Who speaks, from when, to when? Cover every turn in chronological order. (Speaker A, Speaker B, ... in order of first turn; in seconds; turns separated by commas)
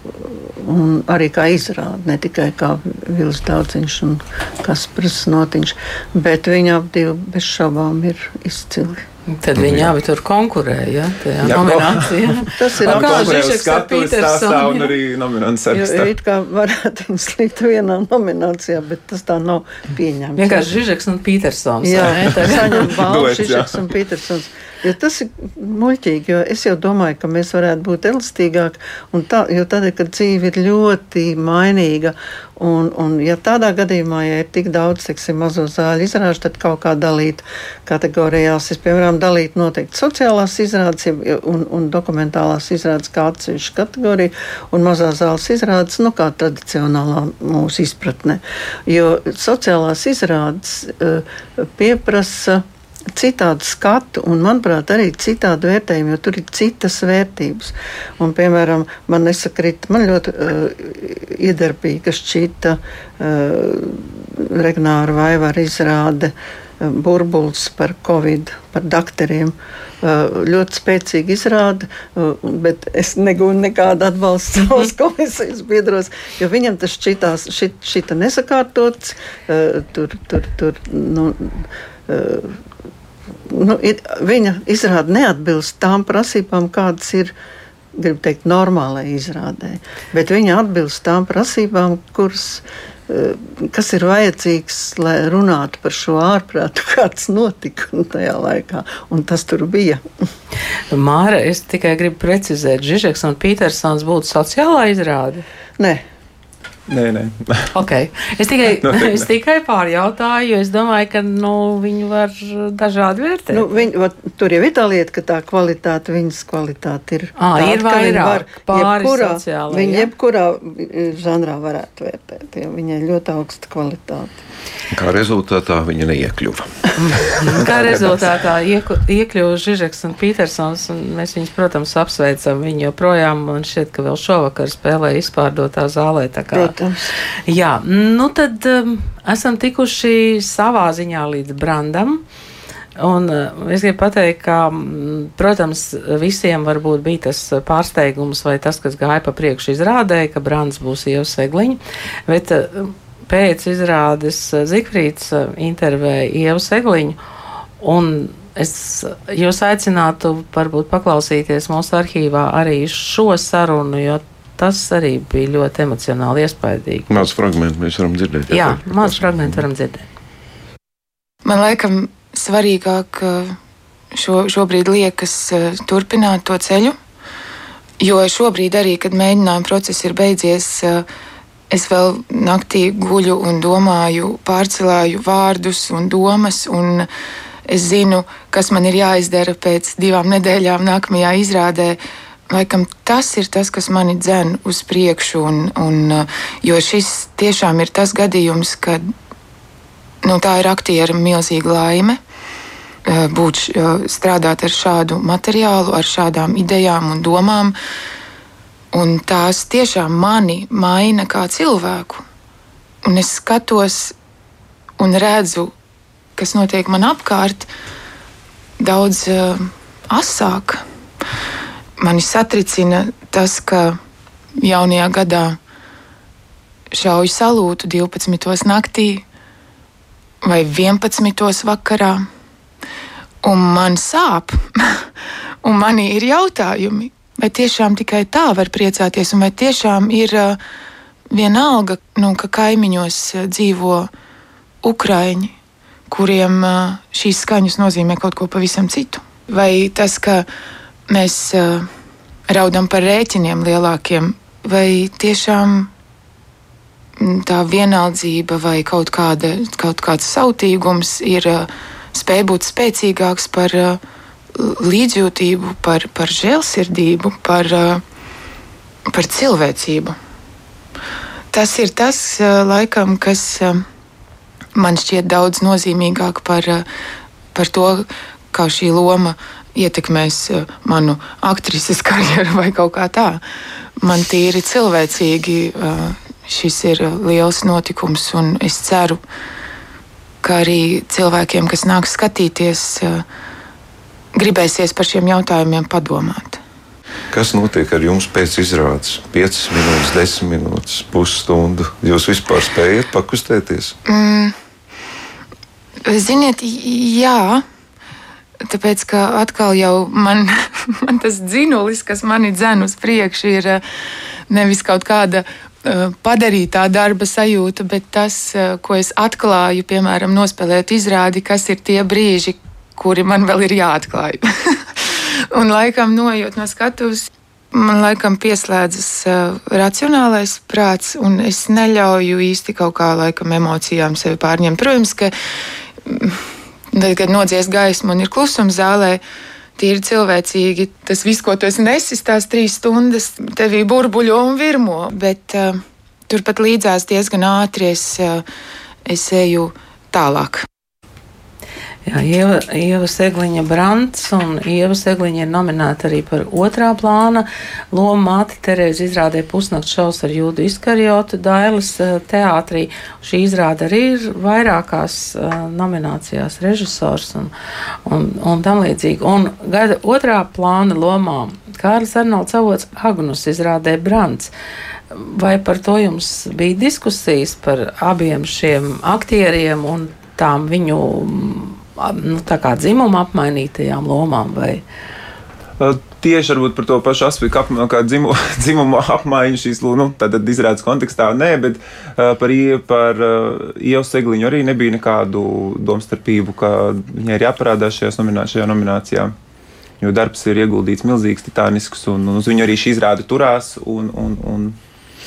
Speaker A: 0.2-9.0, Speaker B: 9.3-14.9, Speaker C: 9.6-9.9, Speaker D: 11.4-16.1, Speaker A: 12.5-13.3, Speaker A: 15.7-20.8, Speaker B: 20.4-22.7, Speaker A: 21.8-82.6, Speaker D: 22.0-23.8, Speaker A: 83.5-87.3, Speaker A: 88.0-100.0, Speaker B: 100.9-105.4, Speaker D: 106.9-107.7, Speaker B: 107.7-113.7, Speaker D: 108.8-109.2, Speaker A: 113.5-124.4, Speaker B: 117.4-120.1, Speaker C: 124.9-126.6, Speaker B: 127.0-136.7, Speaker C: 127.3-128.2, Speaker A: 136.5-137.2, Speaker B: 137.5-142.2, Speaker B: 143.0-157.2, Speaker B: 157.8-167.3, Speaker C: 167.1-169.6, Speaker B: 168.5-170.1, Speaker E: 171.4-173.6, Speaker E: 174.1-176.9, Speaker E: 178.0-181.1, Speaker E: 181.7-187.1, Speaker E: 187.7-199.0, Speaker E: 200.2-202.2, Speaker E: 203.0-207.7, Speaker E: 208.9-212.2, Speaker E: 213.0-214.1, Speaker E: 215.0-215.7, Speaker E: 216.4-217.7, Speaker E: 218.8-220.8, Speaker E: 222.0-224.0, Speaker E: 224.6-225.6, Speaker E: 226.9-229.2, Speaker E: 230.4-232.3, Speaker E: 233.4-235.1, Speaker E: 235.6-240.6, Speaker E: 241.3-244.1, Speaker E: 244.8-245.5, Speaker E: 246.1-250.5, Speaker E: 251.1-251.9, Speaker E: 252.5-255.9, Speaker E: 257.2-264.0, Speaker E: 264.6-268.0, Speaker E: 269.1-270.1, Speaker E: 271.5-273.8, Speaker E: 274.7-276.9, Speaker E: 277.5-283.4, Speaker E: 284.0-289.2, Speaker E: 290.4-293.2, Speaker E: 294.3-296.6, Speaker C: 297.3-303.9, Speaker E: 304.1-304.5, Speaker E: 306.1-307.6, Speaker E: 308.7-313.8, Speaker E: 314.5-335.3, Speaker E: 336.0-336.4, Speaker E: 336.9-339.2, Speaker E: 339.8-348.4, Speaker E: 349.1-350.6, Speaker B: 352.1-367.5, Speaker B: 368.1-374.5, Speaker B: 375.1-384.8, Speaker D: 385.8-399.3, Speaker D: 400.0-404.8